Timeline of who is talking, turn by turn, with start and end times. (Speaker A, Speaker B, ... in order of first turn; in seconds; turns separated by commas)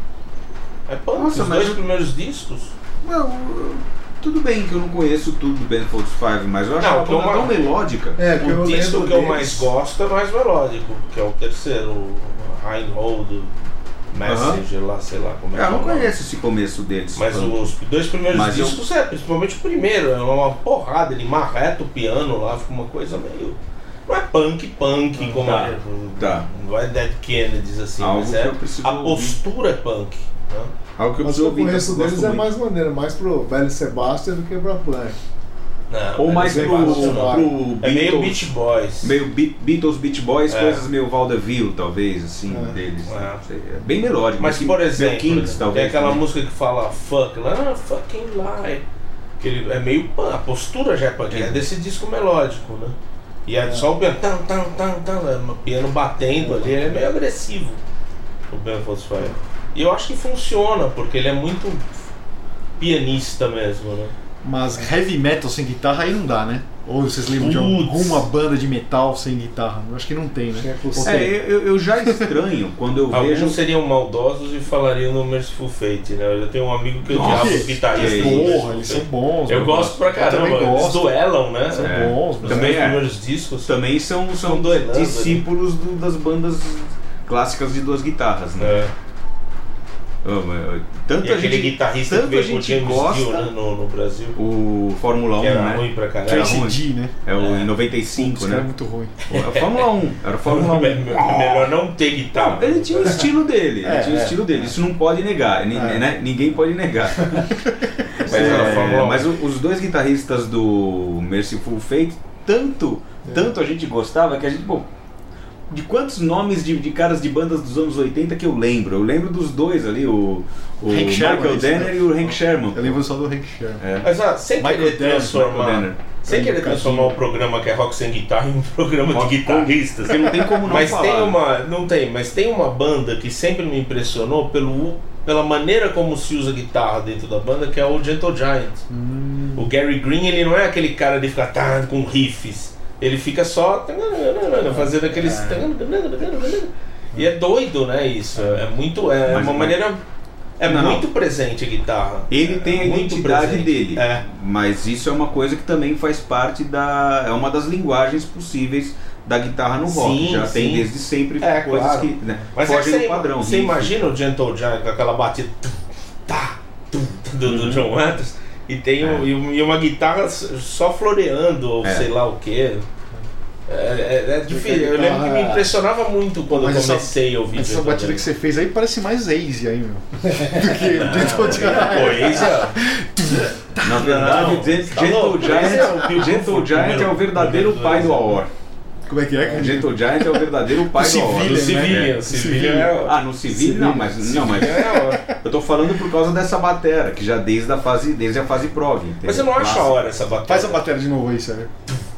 Speaker A: 0.9-2.7, Speaker B: 1.1-1.8, Speaker B: 3.0-8.2, Speaker A: 6.8-7.6, Speaker C: 8.2-9.7, Speaker A: 8.4-13.5, Speaker A: 14.1-16.1, Speaker B: 14.2-14.6, Speaker B: 15.5-17.7, Speaker A: 17.1-30.7, Speaker B: 18.3-18.8, Speaker B: 25.3-26.5, Speaker B: 28.0-29.3, Speaker B: 31.0-32.5, Speaker C: 31.2-35.2, Speaker A: 35.9-39.2, Speaker B: 36.2-38.5, Speaker C: 36.3-37.5, Speaker B: 39.0-46.2, Speaker A: 40.5-40.9, Speaker D: 42.5-42.8, Speaker A: 43.0-43.4, Speaker A: 44.4-48.8, Speaker A: 49.4-57.8, Speaker B: 51.3-51.6, Speaker C: 56.4-57.1, Speaker A: 58.5-62.0, Speaker A: 62.8-64.1, Speaker D: 64.4-71.4, Speaker A: 67.3-68.2, Speaker C: 70.6-71.3, Speaker B: 71.0-73.6, Speaker D: 72.0-72.3, Speaker A: 73.1-83.8, Speaker B: 77.1-78.6, Speaker D: 77.1-81.0, Speaker D: 81.7-82.7, Speaker B: 81.8-83.0, Speaker B: 83.7-88.9, Speaker A: 84.4-85.4, Speaker A: 88.6-88.9, Speaker B: 90.2-93.5, Speaker A: 91.2-94.4, Speaker B: 94.3-98.7, Speaker A: 95.4-96.7, Speaker D: 96.2-97.1, Speaker A: 97.3-97.7, Speaker D: 98.1-99.1, Speaker A: 99.3-99.9, Speaker B: 99.3-101.7, Speaker A: 100.4-103.3, Speaker B: 102.3-114.9, Speaker D: 103.8-104.6, Speaker D: 105.7-106.0, Speaker D: 107.7-109.0, Speaker A: 108.2-109.3, Speaker C: 113.2-113.5, Speaker B: 115.7-123.0, Speaker D: 120.9-123.8, Speaker B: 123.8-124.1, Speaker A: 124.0-138.8, Speaker D: 124.6-125.5, Speaker B: 125.4-126.0, Speaker D: 126.3-127.2, Speaker B: 129.1-131.4, Speaker D: 138.9-139.7, Speaker A: 139.5-150.0, Speaker D: 144.7-145.7, Speaker B: 149.3-149.8, Speaker A: 150.6-154.2, Speaker B: 150.6-151.0, Speaker B: 152.3-164.0, Speaker A: 159.9-160.9, Speaker A: 161.4-172.8, Speaker B: 167.5-167.8, Speaker B: 171.8-172.1, Speaker A: 173.7-178.2, Speaker C: 174.5-175.7, Speaker D: 176.5-184.5, Speaker C: 180.3-181.2, Speaker A: 180.9-182.8, Speaker A: 183.8-188.4, Speaker B: 183.8-188.5, Speaker D: 185.4-186.1, Speaker D: 189.1-192.9, Speaker B: 189.5-192.2, Speaker A: 191.4-193.1, Speaker B: 193.0-199.9, Speaker D: 193.5-195.3, Speaker A: 194.4-195.3, Speaker A: 199.2-200.8, Speaker D: 200.4-201.7